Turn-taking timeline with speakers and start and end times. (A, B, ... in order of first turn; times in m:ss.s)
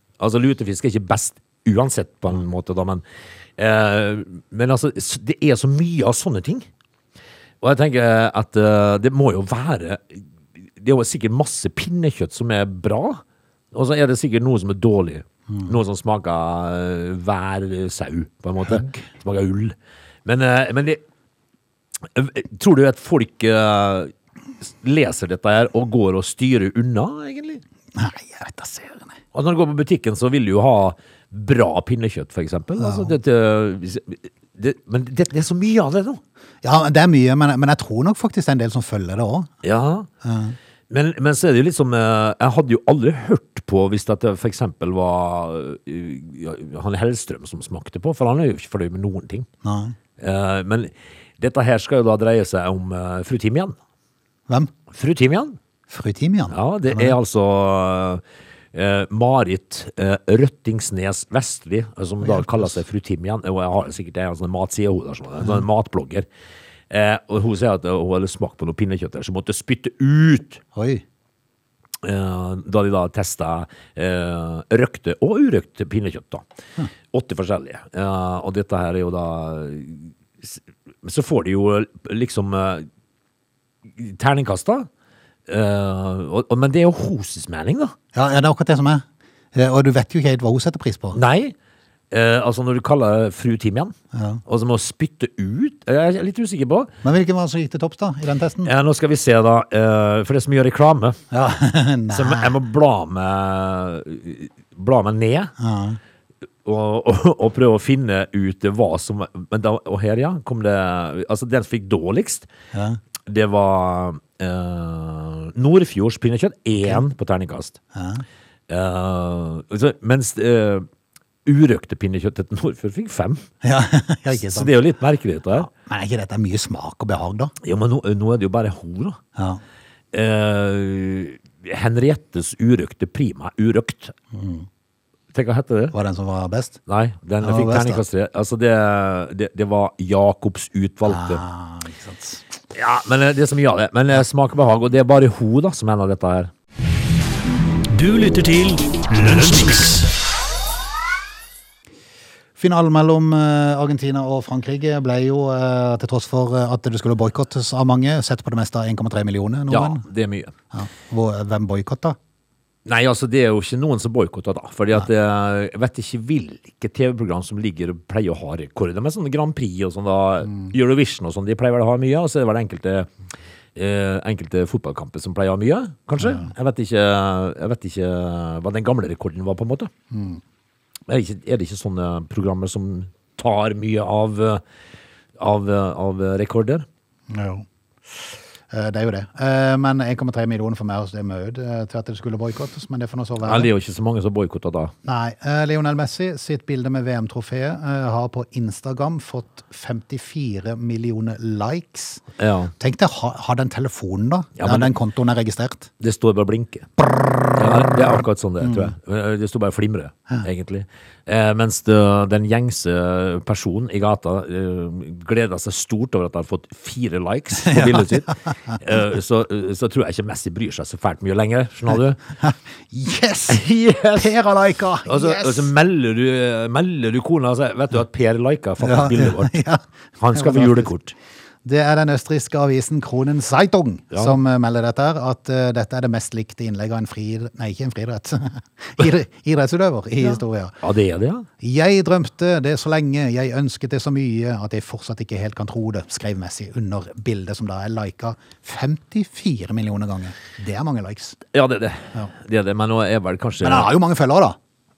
0:00.2-0:03.0 A
0:03.6-0:06.7 A
0:07.6-0:10.2 A
0:10.8-0:21.0 A
0:22.1-0:24.1 A
0:24.6-0:27.6 A
0:27.9-0:29.2 B
0:29.3-0:36.2 A
0:32.8-0:33.1 B
0:36.6-0:39.5 B
0:39.6-0:40.1 A
0:40.2-0:40.6 B
0:40.9-0:49.5 A
0:49.6-0:50.0 B
0:50.2-0:53.8 A
0:54.9-0:55.6 A
0:55.9-0:57.1 B
0:56.5-1:06.2 A
1:02.2-1:02.8 B
1:06.9-1:10.6 A
1:10.7-1:11.0 B
1:12.0-1:16.4 A
1:17.1-1:22.8 A
1:24.0-1:24.9 A
1:25.5-1:27.9 A
1:28.1-1:31.2 B
1:31.1-1:31.5 A
1:32.1-1:33.9 A
1:34.1-1:34.4 B
1:34.5-1:36.9 A
1:37.0-1:38.7 B
1:38.6-1:41.2 A
1:41.3-1:42.5 B
1:42.1-1:45.5 A
1:45.6-1:46.0 B
1:46.6-1:52.5 A
1:52.7-1:53.0 B
1:53.2-1:57.8 A
1:57.9-1:58.2 B
1:58.7-2:00.9 A
2:01.4-2:03.4 A
2:03.6-2:04.7 B
2:04.3-2:05.7 A
2:05.5-2:07.5 B
2:07.6-2:09.2 A
2:09.4-2:09.6 B
2:10.1-2:14.1 A
2:14.3-2:14.6 B
2:15.3-2:15.9 A
2:15.9-2:16.8 B
2:16.9-2:21.4 A
2:17.4-2:18.0 B
2:21.0-2:22.4 B
2:22.7-2:26.5 A
2:27.9-2:30.1 C
2:32.6-2:40.0 B
2:39.7-2:40.5 A
2:40.7-2:42.2 B
2:42.8-2:53.1 A
2:53.7-2:59.9 A
2:56.2-2:56.5 B
3:00.1-3:00.4 B
3:01.1-3:04.6 A
3:05.4-3:06.8 A
3:07.3-3:13.7 B
3:13.4-3:14.9 A
3:15.0-3:22.2 B
3:22.4-3:22.7 A
3:22.8-3:25.9 B
3:24.6-3:24.9 A
3:26.0-3:26.9 A
3:27.5-3:42.2 A
3:28.6-3:28.9 B
3:37.6-3:38.8 B
3:42.4-3:43.6 B
3:43.5-3:44.3 A
3:44.1-3:45.7 B
3:45.0-3:49.6 A
3:48.8-3:50.9 B
3:50.2-3:51.1 A
3:51.6-4:00.8 B
4:00.3-4:01.4 A
4:01.6-4:11.4 B
4:11.5-4:13.9 A
4:13.6-4:14.6 B